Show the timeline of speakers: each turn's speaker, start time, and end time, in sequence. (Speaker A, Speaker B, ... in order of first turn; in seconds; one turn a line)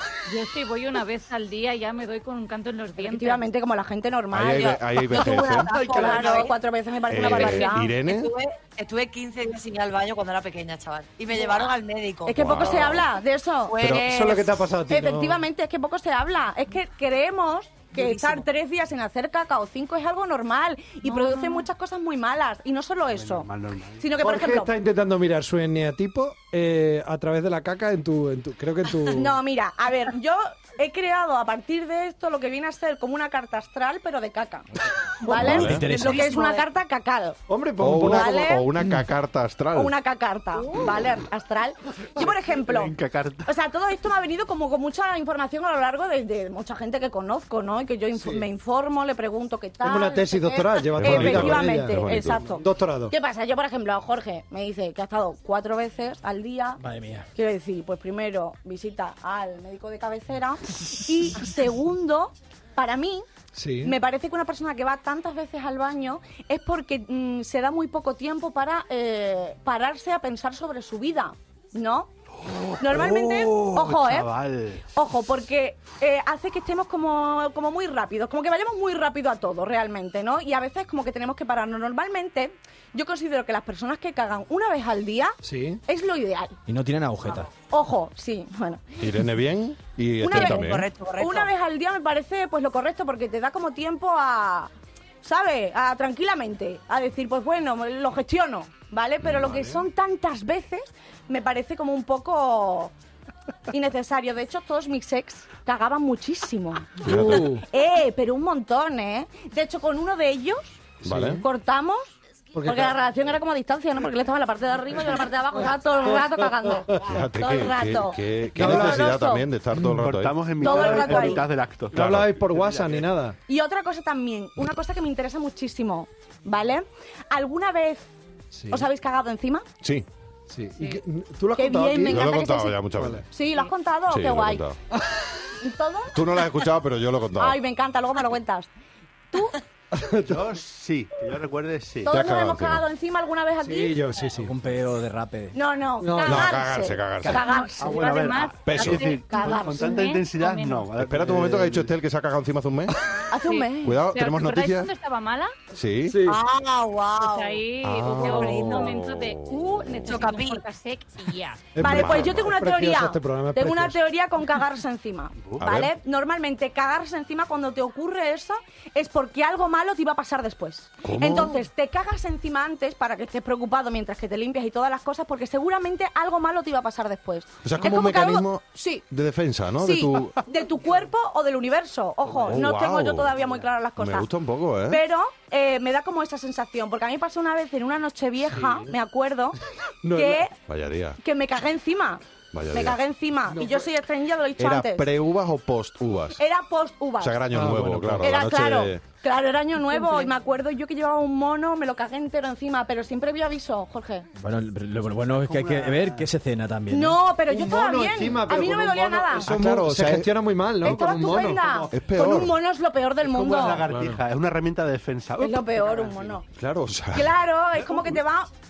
Speaker A: 0.3-3.5
Speaker B: 3.0-8.0
Speaker C: 4.3-5.8
Speaker D: 4.4-6.5
Speaker C: 7.1-8.3
Speaker D: 7.3-12.9
Speaker B: 11.3-11.7
Speaker B: 12.2-23.5
Speaker C: 12.3-13.1
Speaker D: 13.7-14.5
Speaker E: 13.8-15.4
Speaker D: 17.9-18.4
Speaker D: 21.1-21.6
Speaker F: 23.1-24.1
Speaker B: 24.0-24.7
Speaker E: 24.2-29.3
Speaker B: 29.1-34.7
Speaker B: 35.2-37.4
Speaker E: 35.3-35.6
Speaker C: 35.4-35.9
Speaker G: 35.4-36.4
Speaker D: 35.9-36.6
Speaker E: 37.5-38.4
Speaker C: 37.8-39.9
Speaker B: 38.0-38.8
Speaker B: 39.8-56.8
Speaker D: 40.6-40.9
Speaker F: 42.2-43.5
Speaker E: 48.2-48.5
Speaker E: 49.8-53.1
Speaker C: 51.0-52.5
Speaker G: 56.8-57.3
Speaker B: 57.4-63.3
Speaker E: 63.5-64.0
Speaker B: 63.8-72.1
Speaker F: 72.4-74.9
Speaker B: 72.8-74.3
Speaker B: 74.9-86.6
Speaker E: 85.4-85.8
Speaker G: 86.7-87.5
Speaker B: 87.6-88.9
Speaker C: 89.0-90.9
Speaker B: 90.2-94.7
Speaker D: 90.3-91.5
Speaker B: 95.2-102.9
Speaker C: 99.2-99.6
Speaker E: 99.4-99.8
Speaker B: 103.7-119.5
Speaker C: 107.0-107.6
Speaker E: 107.0-107.7
Speaker C: 111.0-111.4
Speaker E: 111.1-111.4
Speaker E: 112.5-112.9
Speaker E: 116.9-117.2
Speaker C: 117.1-120.5
Speaker E: 118.6-119.2
Speaker E: 119.7-120.1
Speaker F: 119.8-123.1
Speaker B: 120.6-121.5
Speaker E: 120.6-123.4
Speaker C: 121.9-122.3
Speaker B: 123.5-128.1
Speaker E: 128.5-128.9
Speaker B: 128.7-129.7
Speaker C: 129.8-130.1
Speaker E: 130.5-133.2
Speaker B: 131.6-134.7
Speaker C: 132.1-133.2
Speaker C: 134.1-134.8
Speaker E: 134.9-135.3
Speaker B: 135.6-136.2
Speaker C: 136.1-137.6
Speaker B: 137.4-138.7
Speaker B: 139.3-139.6
Speaker E: 139.9-140.6
Speaker F: 140.3-142.1
Speaker B: 142.0-144.1
Speaker C: 142.1-142.9
Speaker E: 143.6-144.6
Speaker G: 144.4-145.6
Speaker B: 145.5-148.1
Speaker E: 146.0-146.6
Speaker C: 146.2-147.4
Speaker A: 147.3-150.9
Speaker F: 147.8-151.9
Speaker C: 148.7-149.1
Speaker B: 148.9-150.0
Speaker C: 151.0-152.9
Speaker B: 153.3-154.0
Speaker A: 153.4-155.6
Speaker C: 153.8-154.9
Speaker C: 155.7-156.2
Speaker E: 156.1-156.4
Speaker D: 156.2-159.0
Speaker A: 157.2-161.7
Speaker C: 157.8-160.0
Speaker D: 160.0-160.6
Speaker E: 161.8-164.0
Speaker C: 161.8-162.6
Speaker B: 161.8-179.0
Speaker F: 165.4-165.7
Speaker C: 165.6-165.9
Speaker C: 171.0-171.6
Speaker C: 177.6-180.4
Speaker B: 179.8-184.3
Speaker F: 182.2-182.6
Speaker C: 182.5-183.4
Speaker C: 184.0-185.0
Speaker B: 184.9-189.6
Speaker E: 188.5-188.9
Speaker E: 190.0-190.4
Speaker B: 190.1-190.6
Speaker C: 190.7-191.2
Speaker B: 191.2-195.1
Speaker C: 192.5-193.0
Speaker E: 193.5-193.9
Speaker C: 194.6-196.4
Speaker B: 196.4-197.4
Speaker C: 197.2-199.0
Speaker E: 197.5-198.3
Speaker B: 198.2-204.3
Speaker G: 204.4-207.2
Speaker F: 205.1-206.3
Speaker B: 206.9-209.5
Speaker E: 207.5-211.7
Speaker C: 209.4-210.3
Speaker B: 210.8-213.9
Speaker F: 211.5-212.0
Speaker C: 211.9-212.6
Speaker F: 213.2-216.4
Speaker E: 213.8-214.2
Speaker B: 215.4-216.4
Speaker C: 216.6-217.3
Speaker B: 217.1-218.5
Speaker F: 217.8-218.2